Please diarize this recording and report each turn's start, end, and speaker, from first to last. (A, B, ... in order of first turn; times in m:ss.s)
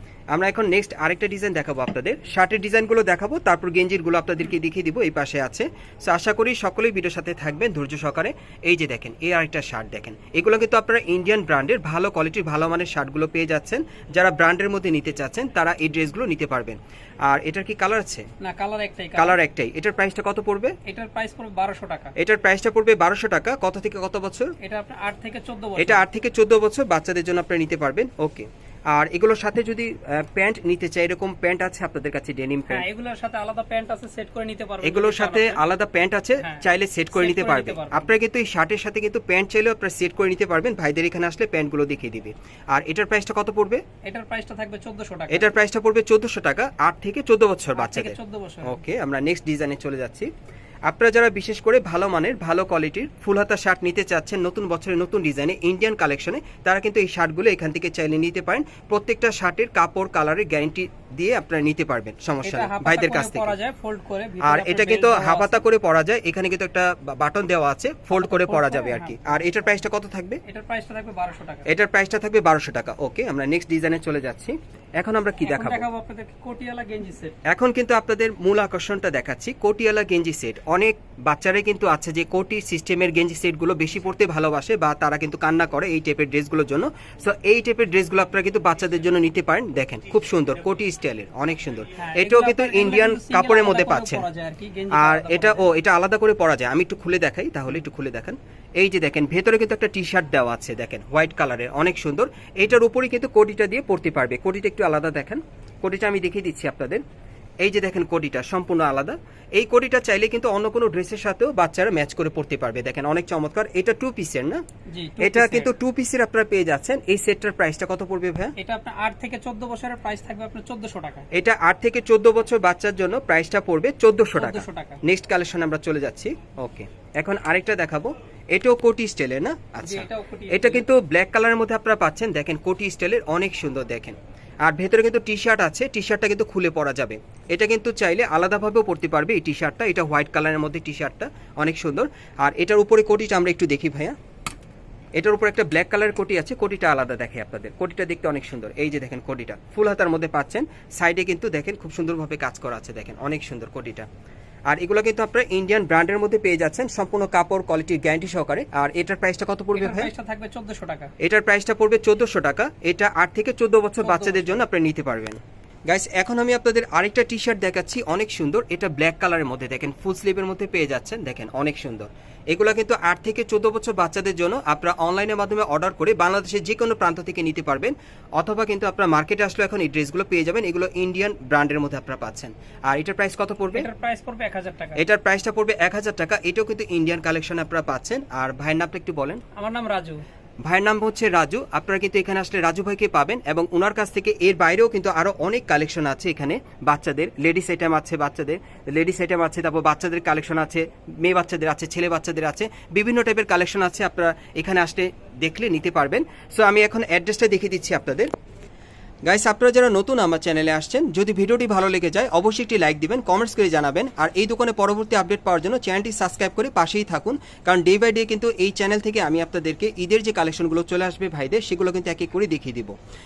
0:00.3-0:18.3 A
0:18.4-0:19.4 B
0:19.2-0:20.8 A
0:20.8-0:22.1 B
0:22.2-0:24.5 A
0:24.6-0:26.0 B
0:25.8-0:32.8 A
0:32.7-0:35.6 B
0:34.8-0:43.8 A
0:36.4-0:38.1 B
0:44.0-0:45.5 B
0:45.3-0:50.3 A
0:47.8-0:48.8 B
0:50.9-1:03.6 A
1:02.4-1:05.6 B
1:04.4-1:10.4 A
1:08.1-1:09.6 B
1:10.4-1:11.7 B
1:11.7-1:15.8 A
1:15.4-1:17.3 B
1:17.5-1:34.2 A
1:32.0-1:35.7 B
1:34.9-1:47.0 A
1:47.6-1:54.6 A
1:54.9-1:55.7 B
1:55.2-1:58.5 A
1:58.6-2:01.2 B
2:01.3-2:24.2 A
2:04.3-2:05.0 B
2:09.8-2:10.8 B
2:25.2-2:34.1 A
2:34.7-2:40.1 A
2:39.7-2:41.1 B
2:41.2-3:03.9 A
2:44.0-2:44.6 B
3:03.7-3:05.0 B
3:05.0-3:09.4 A
3:09.6-3:10.2 B
3:10.6-3:28.3 A
3:29.2-3:42.9 A